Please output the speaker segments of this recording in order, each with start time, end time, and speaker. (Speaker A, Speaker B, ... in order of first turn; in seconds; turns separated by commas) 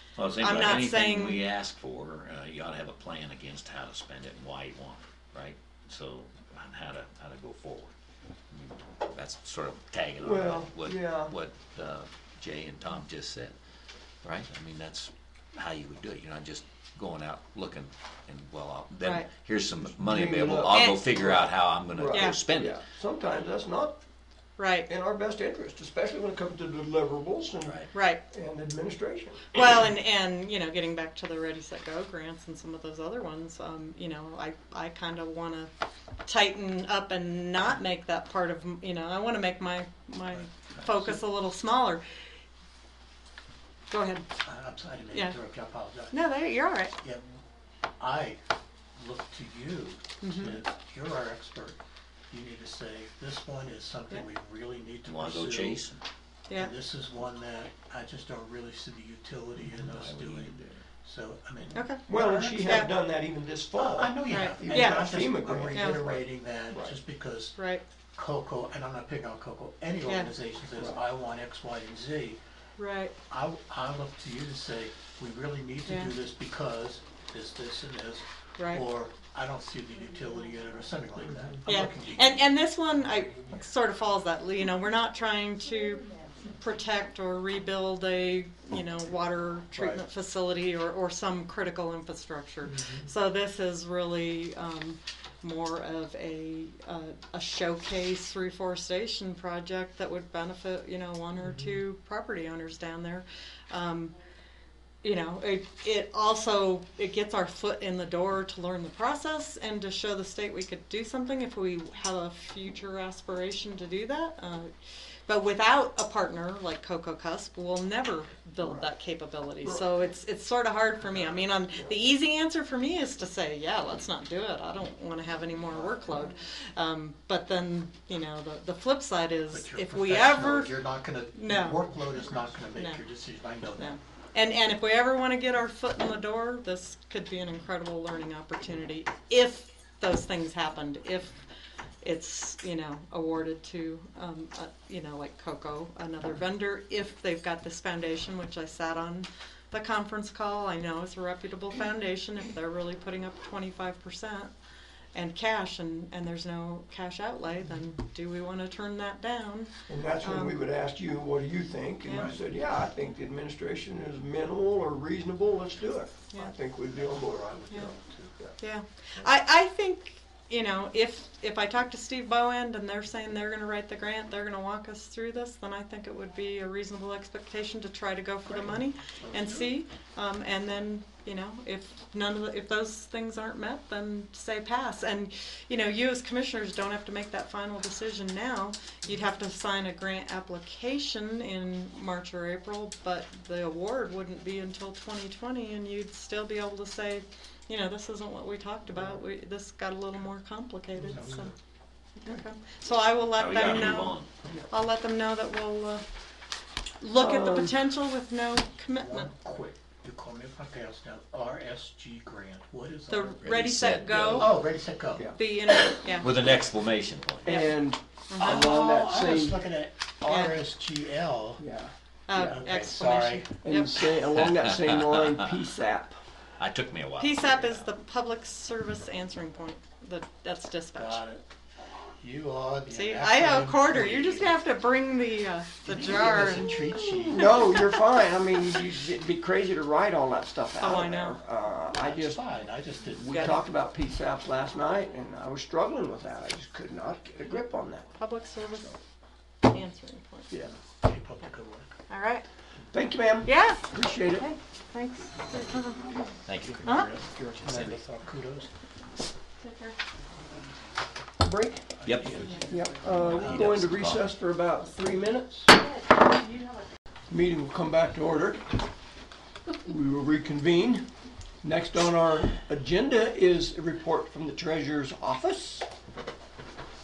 Speaker A: 0.2-7.9, Speaker B: 0.4-1.4, Speaker A: 8.5-13.5, Speaker C: 10.2-11.3, Speaker A: 14.2-22.8, Speaker B: 19.0-19.3, Speaker C: 19.8-24.0, Speaker B: 20.7-21.1, Speaker B: 22.1-22.4, Speaker B: 24.6-24.9, Speaker C: 24.9-29.6, Speaker B: 27.9-28.2, Speaker B: 29.5-35.7, Speaker B: 36.2-42.0, Speaker D: 40.3-41.2, Speaker B: 43.9-44.2, Speaker D: 44.4-46.1, Speaker B: 46.1-46.9, Speaker D: 47.0-47.4, Speaker D: 48.0-48.4, Speaker D: 49.0-51.8, Speaker B: 50.2-50.6, Speaker D: 52.3-55.9, Speaker A: 55.0-56.0, Speaker D: 56.5-62.9, Speaker A: 59.6-60.9, Speaker B: 61.7-62.0, Speaker C: 62.1-66.2, Speaker B: 62.6-62.9, Speaker D: 63.8-67.5, Speaker B: 64.3-66.0, Speaker C: 66.7-67.0, Speaker B: 67.5-67.8, Speaker D: 68.2-72.4, Speaker B: 70.0-70.3, Speaker B: 72.8-73.1, Speaker D: 73.3-82.5, Speaker B: 75.9-76.1, Speaker B: 78.6-78.8, Speaker B: 81.6-104.1, Speaker B: 105.0-114.7, Speaker B: 115.3-130.8, Speaker C: 118.6-118.9, Speaker C: 119.6-120.0, Speaker C: 121.1-121.9, Speaker D: 129.5-133.9, Speaker B: 131.3-131.8, Speaker B: 132.7-133.0, Speaker B: 133.8-141.4, Speaker B: 142.0-154.5, Speaker B: 155.1-160.6, Speaker C: 159.9-167.8, Speaker B: 162.0-162.3, Speaker D: 162.1-162.4, Speaker D: 166.9-168.6, Speaker B: 168.6-201.5, Speaker D: 178.5-179.7, Speaker D: 201.0-201.5, Speaker C: 201.1-201.4, Speaker B: 202.2-206.0, Speaker A: 203.4-204.3, Speaker B: 207.0-209.3, Speaker C: 207.1-207.8, Speaker D: 208.9-213.4, Speaker B: 213.1-214.5, Speaker A: 213.4-214.6, Speaker D: 214.3-215.3, Speaker B: 215.3-216.3, Speaker A: 216.1-217.5, Speaker B: 217.4-217.8, Speaker C: 217.4-219.6, Speaker B: 218.3-218.7, Speaker D: 218.4-221.6, Speaker B: 220.2-220.6, Speaker C: 221.6-221.9, Speaker B: 222.3-224.1, Speaker D: 222.3-223.5, Speaker C: 223.6-226.2, Speaker A: 226.6-227.8, Speaker B: 227.2-231.2, Speaker D: 230.9-231.4, Speaker D: 232.2-234.6, Speaker B: 232.9-237.8, Speaker D: 235.8-237.6, Speaker C: 237.2-242.4, Speaker B: 240.8-241.4, Speaker D: 241.9-243.6, Speaker C: 243.2-248.1, Speaker B: 243.3-243.7, Speaker B: 248.2-249.0, Speaker B: 249.7-250.5, Speaker D: 250.9-251.9, Speaker B: 252.1-252.4, Speaker C: 252.9-254.5, Speaker B: 253.4-257.1, Speaker A: 256.4-258.0, Speaker D: 256.7-258.7, Speaker B: 259.6-259.9, Speaker C: 261.4-265.7, Speaker D: 262.0-263.4, Speaker A: 262.1-262.5, Speaker B: 262.3-262.8, Speaker A: 263.0-264.3, Speaker B: 265.7-266.8, Speaker C: 267.3-268.6, Speaker C: 269.8-271.1, Speaker C: 271.6-275.9